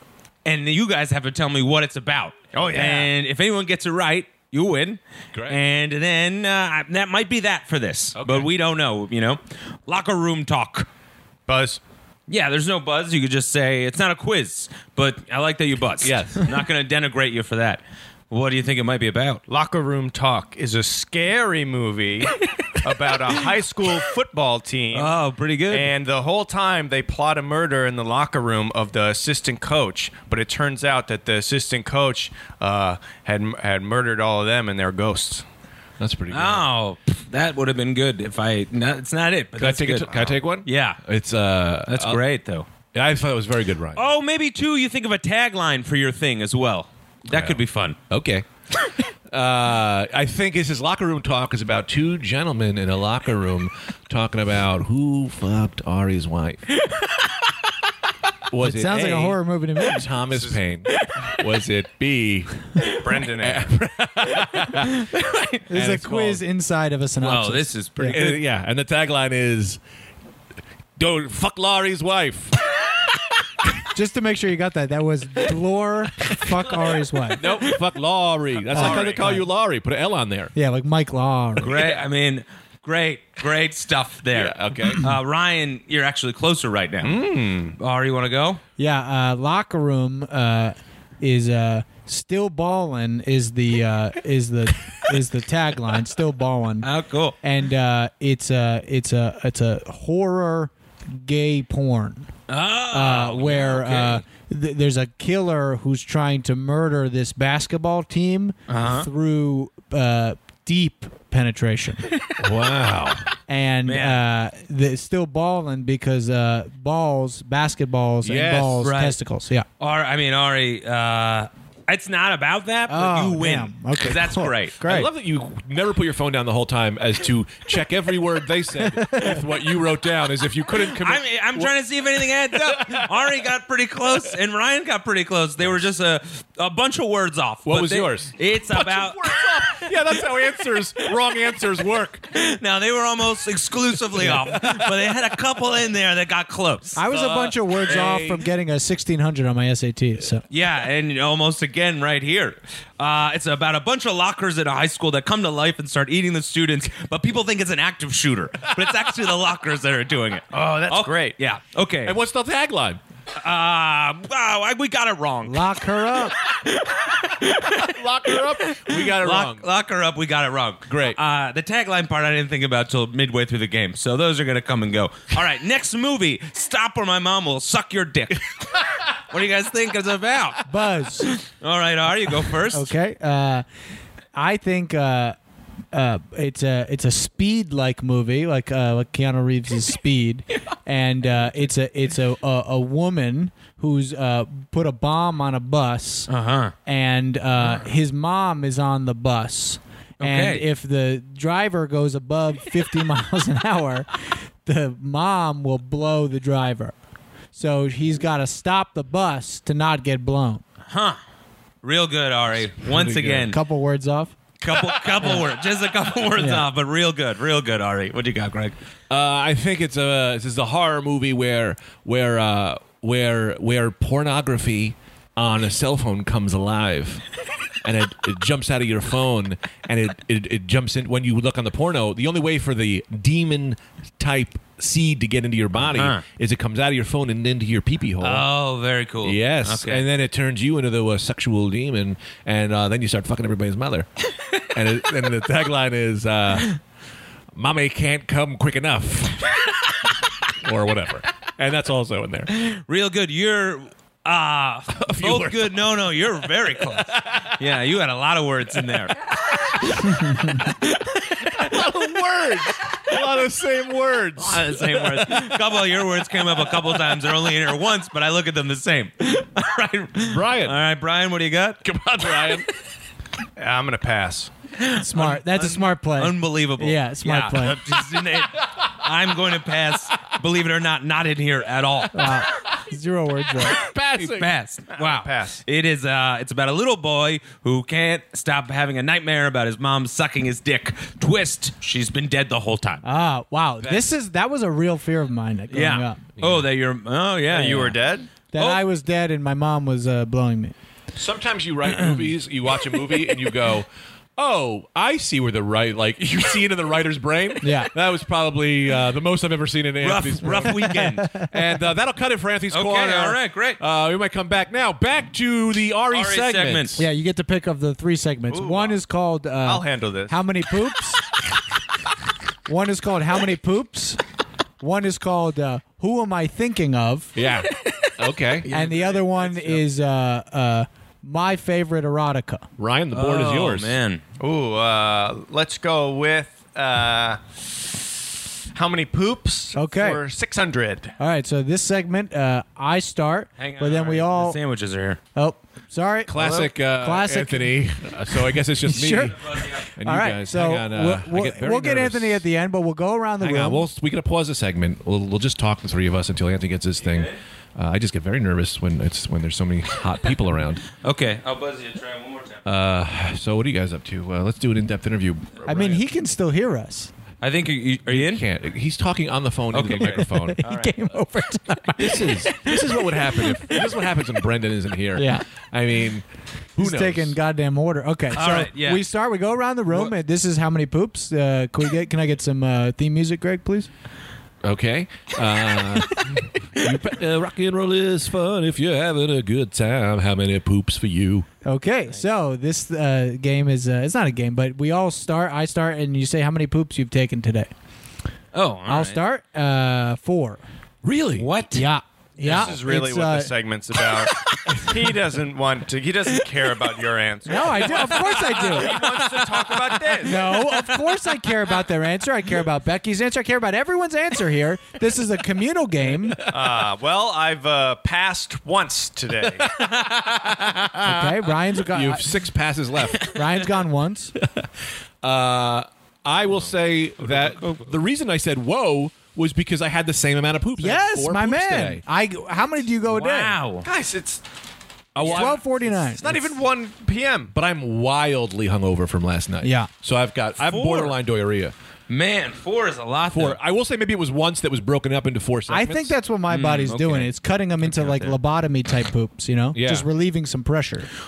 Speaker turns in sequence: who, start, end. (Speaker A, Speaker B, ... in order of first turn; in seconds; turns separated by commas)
Speaker A: 0.4-10.9, Speaker B: 2.5-3.1, Speaker C: 5.3-5.6, Speaker C: 8.2-8.5, Speaker B: 11.5-11.8, Speaker A: 12.3-19.4, Speaker C: 16.0-16.4, Speaker B: 19.5-25.1, Speaker A: 24.9-25.9, Speaker B: 25.7-35.4, Speaker C: 36.0-36.6, Speaker A: 36.3-41.0, Speaker C: 39.5-42.2, Speaker A: 41.9-42.7, Speaker C: 42.9-44.0, Speaker A: 43.9-48.0, Speaker C: 47.3-48.5, Speaker C: 49.3-56.7, Speaker C: 58.5-65.1, Speaker D: 58.6-60.1, Speaker B: 60.3-60.6, Speaker B: 62.9-63.7, Speaker A: 64.5-66.3, Speaker D: 65.7-68.2, Speaker C: 65.7-66.4, Speaker A: 67.2-68.3, Speaker C: 68.1-69.8, Speaker C: 71.0-72.6, Speaker D: 73.9-77.6, Speaker C: 77.3-80.5, Speaker D: 78.7-79.4, Speaker B: 78.7-79.3, Speaker D: 80.5-81.9, Speaker A: 81.6-87.2, Speaker C: 84.3-85.0, Speaker B: 87.0-87.7, Speaker A: 87.8-88.6, Speaker D: 88.8-96.9, Speaker A: 96.8-97.4, Speaker D: 97.4-102.3, Speaker A: 102.5-104.2, Speaker D: 102.9-112.0, Speaker A: 108.7-109.1, Speaker C: 112.4-113.2, Speaker D: 113.5-119.6, Speaker A: 113.8-114.2, Speaker C: 118.2-118.8, Speaker A: 118.8-119.2, Speaker A: 119.8-124.8, Speaker D: 122.9-125.1, Speaker C: 124.8-133.2, Speaker D: 128.9-129.4, Speaker A: 130.9-139.9, Speaker C: 137.6-142.3, Speaker A: 142.3-147.0, Speaker C: 144.2-144.9, Speaker D: 146.9-150.4, Speaker C: 147.1-148.5, Speaker A: 150.5-162.2, Speaker B: 160.5-161.3, Speaker C: 162.0-163.0, Speaker A: 163.4-178.5, Speaker D: 165.4-166.3, Speaker C: 167.8-169.7, Speaker C: 170.9-171.2, Speaker A: 179.1-180.7, Speaker D: 180.7-181.3, Speaker A: 181.2-182.9, Speaker D: 182.6-183.6, Speaker D: 184.3-185.3, Speaker D: 185.9-196.3, Speaker A: 196.3-196.7, Speaker D: 196.8-206.9, Speaker A: 200.2-200.6, Speaker D: 207.5-210.6, Speaker A: 210.9-211.2, Speaker A: 211.8-213.6, Speaker C: 212.6-213.5, Speaker D: 213.4-214.4, Speaker A: 214.6-218.8, Speaker D: 216.3-216.7, Speaker C: 219.1-238.4, Speaker A: 235.9-236.2, Speaker A: 238.2-240.0, Speaker C: 239.2-246.8, Speaker C: 247.5-249.6, Speaker C: 250.5-252.5, Speaker A: 252.5-261.7, Speaker C: 254.9-256.0, Speaker C: 256.8-257.6, Speaker C: 261.4-265.6, Speaker A: 264.4-271.8, Speaker C: 270.2-270.8, Speaker C: 271.8-272.7, Speaker B: 273.6-274.5, Speaker A: 274.8-282.4, Speaker D: 275.0-277.8, Speaker D: 282.1-283.8, Speaker C: 283.7-284.5, Speaker A: 284.2-293.0, Speaker B: 284.9-285.6, Speaker D: 293.0-296.2, Speaker C: 293.8-294.1, Speaker A: 295.7-298.0, Speaker C: 296.4-296.6, Speaker B: 297.5-298.3, Speaker D: 298.5-300.7, Speaker A: 298.6-298.8, Speaker C: 301.1-317.0, Speaker D: 307.6-307.9, Speaker A: 310.0-311.3, Speaker D: 310.6-311.5, Speaker A: 312.7-313.8, Speaker A: 316.1-317.0, Speaker D: 317.0-321.3, Speaker B: 318.5-319.0, Speaker B: 319.6-320.4, Speaker D: 322.7-324.2, Speaker D: 324.8-327.3, Speaker C: 327.3-328.7, Speaker B: 328.6-329.8, Speaker D: 328.7-332.7, Speaker C: 332.8-333.9, Speaker A: 333.1-334.2, Speaker B: 334.4-337.9, Speaker B: 338.7-341.1, Speaker D: 339.7-340.2, Speaker D: 341.2-344.6, Speaker A: 343.6-345.2, Speaker D: 345.3-353.9, Speaker C: 346.3-349.3, Speaker A: 349.2-349.9, Speaker C: 349.9-352.4, Speaker C: 353.4-360.8, Speaker A: 361.0-362.6, Speaker C: 362.6-366.0, Speaker D: 365.6-367.1, Speaker A: 367.4-368.4, Speaker C: 368.1-370.6, Speaker A: 369.7-370.9, Speaker D: 370.4-372.7, Speaker C: 372.0-377.4, Speaker D: 373.6-373.8, Speaker D: 375.1-375.4, Speaker D: 376.8-383.9, Speaker A: 378.3-379.0, Speaker C: 384.6-391.5, Speaker D: 391.6-397.7, Speaker A: 398.5-399.2, Speaker D: 398.9-400.6, Speaker C: 401.0-401.5, Speaker A: 401.4-401.9, Speaker D: 401.7-403.5, Speaker B: 402.4-410.6, Speaker D: 407.4-409.2, Speaker C: 408.5-409.1, Speaker D: 410.2-416.5, Speaker B: 416.5-419.8, Speaker A: 419.7-421.1, Speaker D: 421.0-422.3, Speaker C: 421.9-423.3, Speaker D: 423.2-424.3, Speaker C: 424.4-424.7, Speaker C: 425.2-432.0, Speaker A: 427.2-427.9, Speaker D: 430.8-433.6, Speaker A: 433.1-433.9, Speaker B: 433.8-434.4, Speaker C: 435.1-436.4, Speaker B: 435.2-437.5, Speaker D: 435.2-436.2, Speaker C: 437.5-441.7, Speaker D: 439.6-439.9, Speaker A: 440.6-441.2, Speaker A: 442.1-443.6, Speaker C: 443.3-446.1, Speaker D: 445.7-451.1, Speaker A: 446.5-447.3, Speaker C: 447.8-448.4, Speaker C: 449.7-450.1